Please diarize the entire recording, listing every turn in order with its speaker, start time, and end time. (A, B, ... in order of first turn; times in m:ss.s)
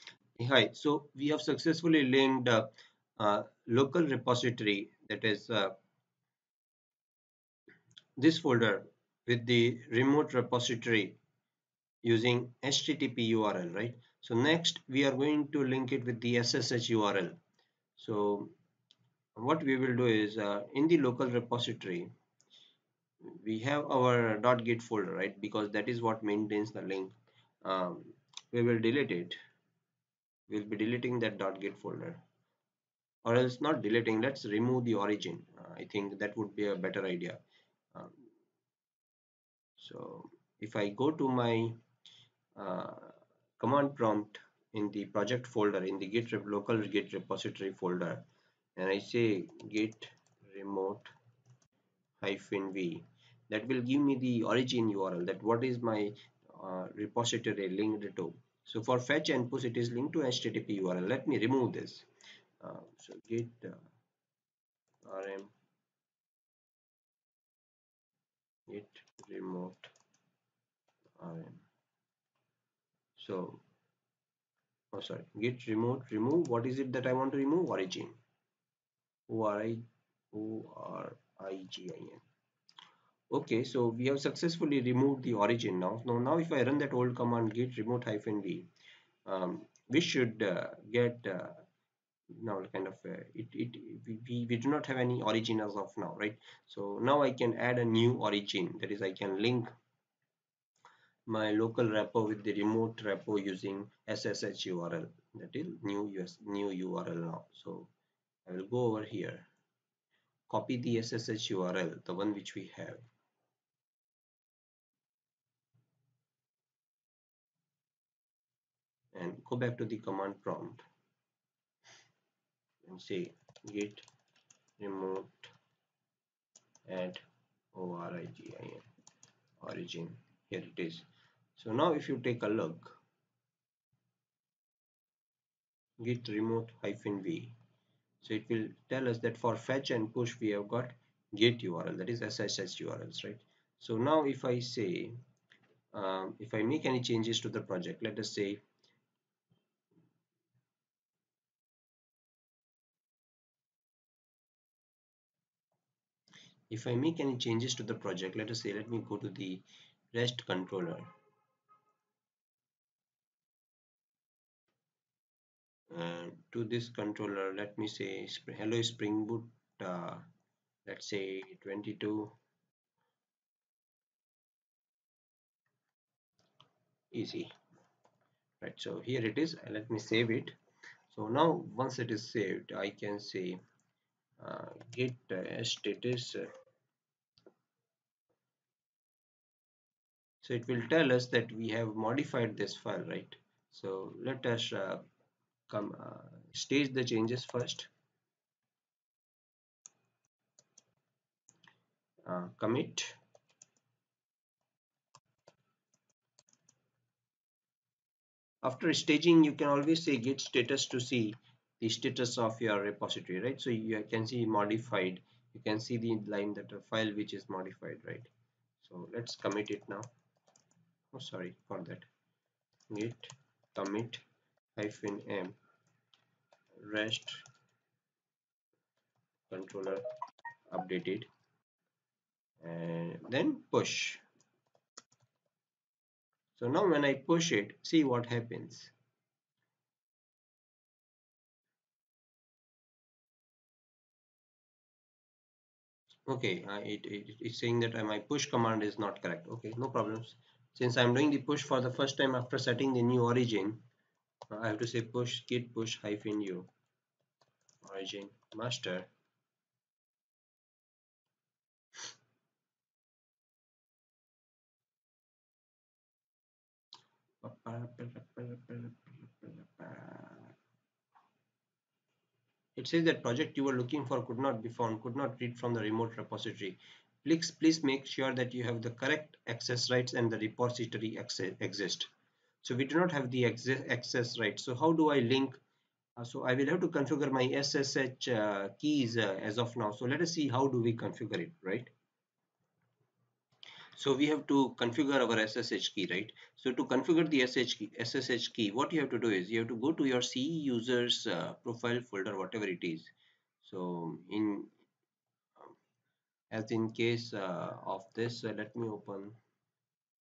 0:00.4-0:05.8 A
0:08.2-0:11.2 A
0:12.0-0:17.4 A
0:18.0-0:18.5 A
0:19.4-0:22.1 A
0:23.2-0:29.4 A
0:30.5-0:32.2 A
0:33.2-0:37.4 A
0:39.8-0:41.8 A
0:42.6-0:51.1 A
0:52.2-1:02.1 A
1:02.6-1:03.8 A
1:05.0-1:05.5 A
1:08.7-1:09.9 A
1:11.2-1:11.6 A
1:13.2-1:13.6 A
1:14.9-1:18.2 A
1:19.3-1:22.2 A
1:23.3-1:28.7 A
1:29.3-1:31.6 A
1:32.3-1:39.7 A
1:41.3-1:47.9 A
1:48.5-1:49.5 A
1:50.5-1:53.0 A
1:59.1-2:00.8 A
2:02.8-2:04.1 A
2:04.8-2:05.5 A
2:06.9-2:07.2 A
2:07.7-2:08.8 A
2:09.6-2:11.1 A
2:11.6-2:13.0 A
2:16.0-2:17.6 A
2:18.2-2:25.2 A
2:25.9-2:28.6 A
2:36.7-2:41.1 A
2:45.9-2:50.3 A
2:50.9-2:52.3 A
2:57.1-2:57.5 A
2:58.6-3:00.6 A
3:01.1-3:03.6 A
3:04.4-3:06.5 A
3:10.4-3:15.0 A
3:15.7-3:17.9 A
3:22.2-3:23.2 A
3:28.6-3:38.3 A
3:38.8-3:40.1 A
3:41.1-3:42.1 A
3:42.9-3:44.2 A
3:44.8-3:45.6 A
3:46.8-3:47.4 A
3:49.5-3:50.0 A
3:50.7-3:51.3 A
3:52.6-3:54.2 A
3:56.6-3:58.9 A
4:06.3-4:13.8 A
4:14.5-4:16.7 A
4:17.8-4:19.1 A
4:27.4-4:30.5 A
4:32.8-4:42.1 A
4:42.6-4:45.6 A
4:46.2-4:51.9 A
4:54.0-5:04.7 A
5:06.5-5:09.4 A